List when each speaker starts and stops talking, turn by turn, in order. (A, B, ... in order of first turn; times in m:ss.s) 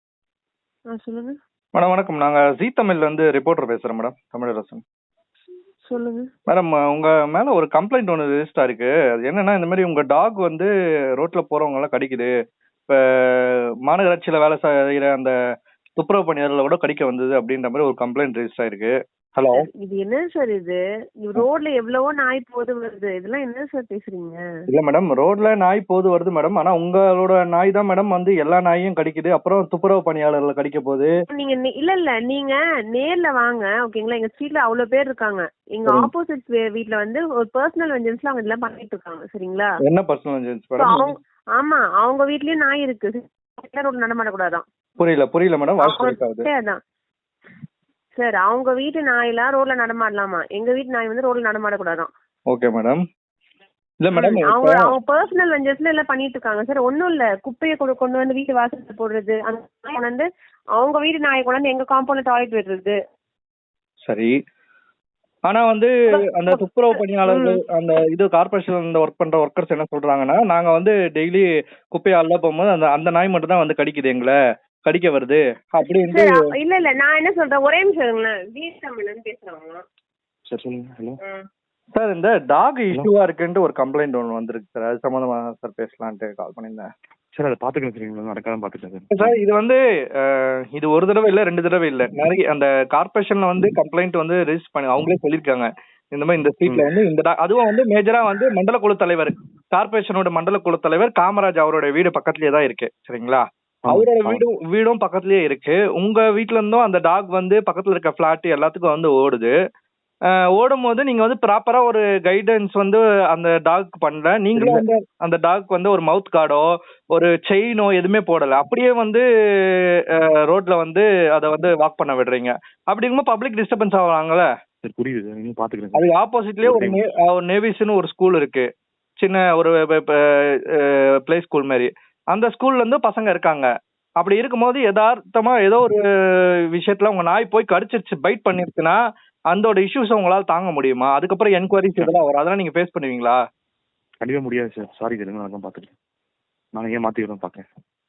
0:00.9-0:01.4 A
0:01.8-0:04.8 B
0:05.9-0:06.3 A
0:06.5-0:12.3 B
0:12.9-0:15.3 B
0:16.0-0:19.7 B
0:19.5-0:24.4 A
0:24.7-0:31.1 B
0:31.3-0:39.7 A
0:39.8-0:41.1 B
0:40.8-0:44.6 A
0:45.0-0:46.5 B
0:45.8-0:46.8 A
0:48.2-0:52.1 A
0:52.5-0:53.0 B
0:54.0-0:54.9 B
0:54.2-1:03.0 A
1:04.1-1:04.4 B
1:05.5-1:16.4 B
1:06.1-1:07.6 A
1:16.1-1:19.8 A
1:20.5-1:21.2 C
1:22.0-1:26.9 B
1:27.3-1:29.4 C
1:29.1-1:49.5 B
1:43.8-1:44.4 C
1:50.5-2:04.5 B
1:54.6-1:54.8 C
2:04.8-2:06.1 C
2:06.0-2:08.7 B
2:06.6-2:07.0 C
2:09.2-2:10.2 B
2:10.8-2:13.7 B
2:14.2-2:16.0 B
2:16.7-2:19.0 B
2:19.5-2:23.4 B
2:24.2-2:25.9 C
2:26.7-2:27.6 C